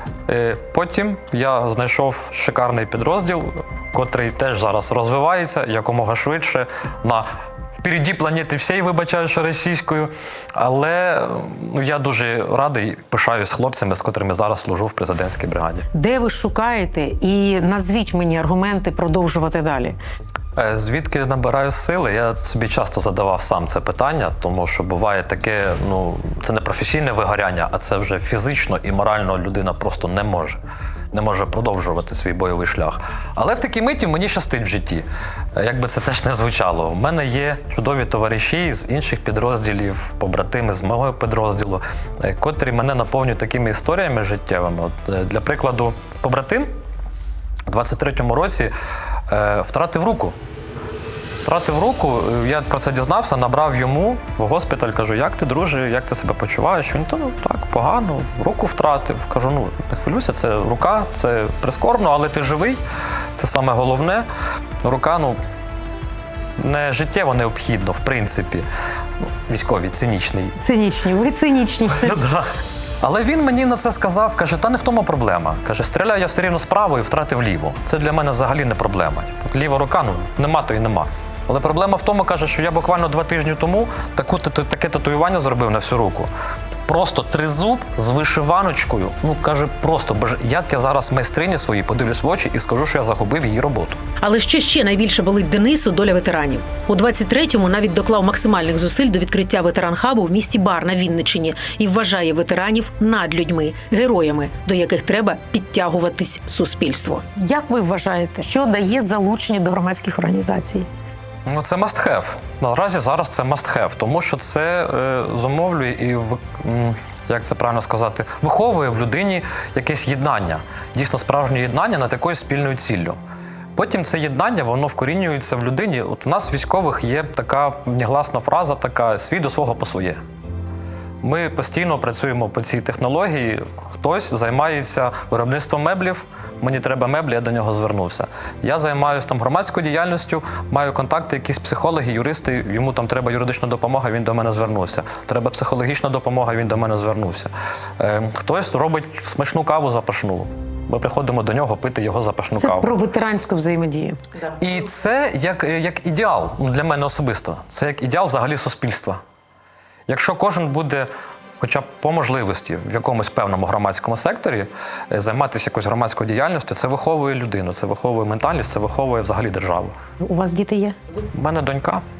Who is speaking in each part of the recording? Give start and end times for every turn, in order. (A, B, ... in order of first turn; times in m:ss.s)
0:00.3-0:07.2 A
0:07.8-0:15.9 A
0:16.0-0:19.9 B
0:20.6-0:30.6 A
0:31.1-0:46.7 A
0:47.7-0:48.7 A
0:49.3-0:50.3 A
0:51.4-1:02.8 A
1:03.4-1:04.2 A
1:04.8-1:05.4 A
1:06.6-1:08.6 A
1:09.5-1:10.6 A
1:10.7-1:11.9 B
1:12.0-1:12.5 A
1:13.0-1:26.3 A
1:26.8-1:34.0 A
1:34.2-1:47.4 C
1:47.4-1:50.8 B
1:51.4-2:03.2 A
2:03.8-2:10.2 A
2:11.2-2:32.9 A
2:32.7-2:34.2 C
2:33.2-2:34.1 B
2:34.6-2:39.2 A
2:40.1-2:41.1 A
2:41.6-2:49.9 A
2:50.2-2:50.9 B
2:51.3-2:52.0 A